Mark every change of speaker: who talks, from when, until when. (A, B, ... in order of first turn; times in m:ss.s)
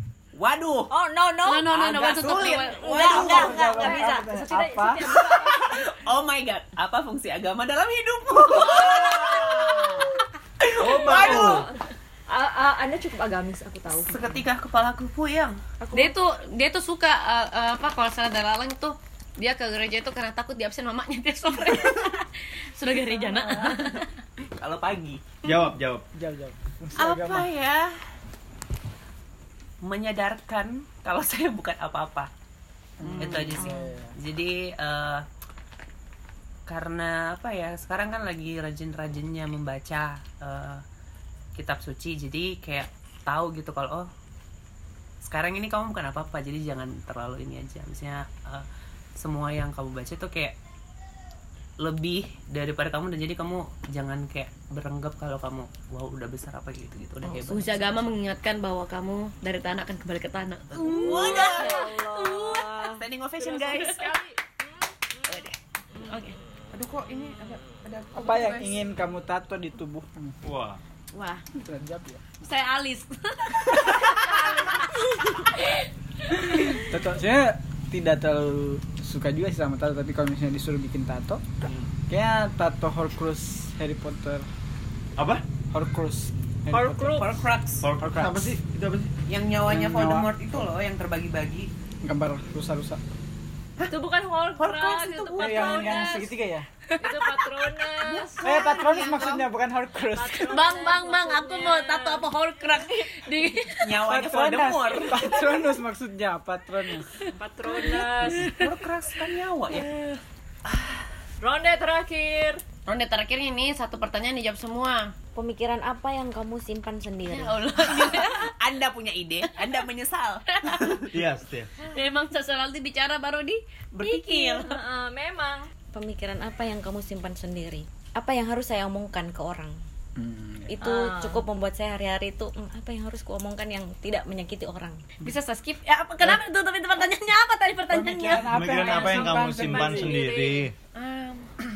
0:00.3-0:00.9 A
0:00.9-0:01.8 B
0:01.4-0:04.2 C
0:01.7-0:03.8 A
0:02.4-0:03.9 B
0:02.9-0:05.2 D
0:03.7-0:05.9 E
0:05.1-0:11.6 A
0:08.7-0:09.7 F
0:09.5-0:09.9 C
0:10.7-0:11.7 F
0:10.8-0:14.4 E
0:14.1-0:15.8 A
0:15.9-0:24.1 C
0:23.6-0:25.2 A
0:25.4-0:26.0 F
0:26.1-0:27.5 D
0:27.0-0:28.0 A
0:29.8-0:32.3 A
0:33.0-0:34.2 D
0:33.0-0:35.2 A
0:33.3-0:33.9 B
0:36.7-0:40.8 A
0:41.6-0:44.1 A
0:45.2-0:50.6 A
0:51.8-0:58.0 A
0:57.3-1:03.0 C
1:00.8-1:04.1 A
1:01.1-1:02.2 E
1:03.4-1:05.4 E
1:05.3-1:05.6 A
1:06.1-1:06.4 C
1:06.7-1:08.8 A
1:08.2-1:10.4 D
1:10.4-1:10.8 F
1:11.1-1:11.4 C
1:11.5-1:12.2 D
1:12.4-1:16.9 C
1:16.4-1:21.4 D
1:21.6-1:21.9 F
1:22.1-1:24.5 D
1:25.2-1:25.4 F
1:25.7-1:27.2 D
1:26.7-1:27.4 E
1:27.2-1:27.9 A
1:27.8-1:29.1 F
1:28.0-1:28.6 D
1:29.3-1:31.7 A
1:29.6-1:30.3 D
1:32.0-1:33.0 D
1:33.9-1:36.3 E
1:34.6-1:36.2 A
1:35.4-1:36.7 D
1:35.9-1:36.2 C
1:36.9-1:37.4 C
1:37.0-1:38.5 E
1:38.1-1:39.4 A
1:38.4-1:40.7 D
1:38.5-1:39.4 C
1:40.1-1:42.3 E
1:40.5-1:44.0 C
1:43.8-1:45.4 A
1:44.0-1:47.1 D
1:47.3-1:48.5 E
1:47.8-1:48.8 C
1:48.3-1:49.9 A
1:49.7-1:50.2 C
1:51.4-1:52.6 E
1:52.9-1:55.1 C
1:55.4-1:57.6 B
1:57.3-1:58.6 C
1:58.0-2:01.1 A
2:00.5-2:01.0 C
2:01.1-2:01.7 F
2:01.8-2:04.7 C
2:04.0-2:04.7 A
2:04.3-2:05.7 E
2:05.9-2:09.8 B
2:10.2-2:10.8 D
2:10.7-2:15.1 B
2:10.8-2:11.4 E
2:15.2-2:18.6 C
2:17.9-2:20.2 D
2:18.4-2:20.8 F
2:18.8-2:20.7 E
2:20.9-2:21.5 C